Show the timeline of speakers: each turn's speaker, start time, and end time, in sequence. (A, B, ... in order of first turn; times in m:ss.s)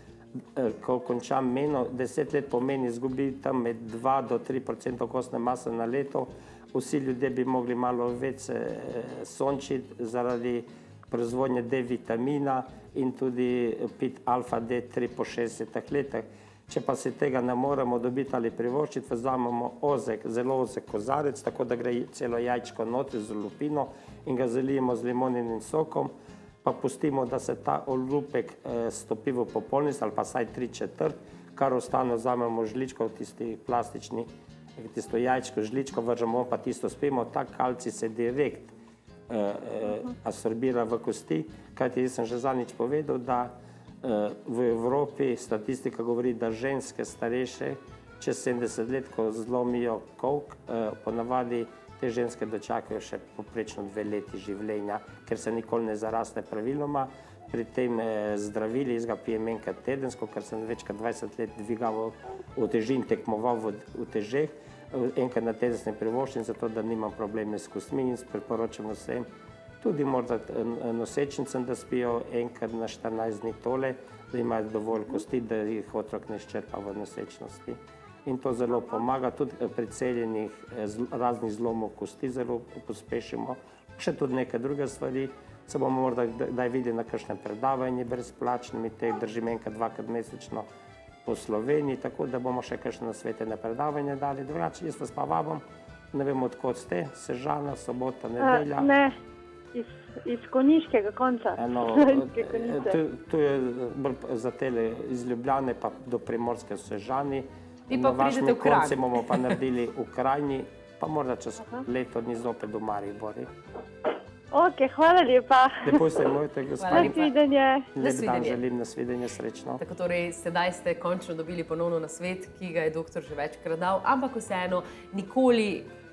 0:00.5-0:26.1 A
0:26.6-0:38.7 A
0:39.3-1:09.2 A
1:09.8-1:30.7 A
1:31.2-1:38.9 A
1:38.4-1:39.1 B
1:39.7-1:43.0 B
1:41.6-1:53.5 A
1:47.9-1:49.2 C
1:54.5-1:56.2 B
1:55.8-1:57.3 A
1:56.8-1:57.3 C
1:56.9-1:57.9 B
1:57.9-1:59.8 A
1:58.0-1:58.6 C
1:59.8-2:05.9 C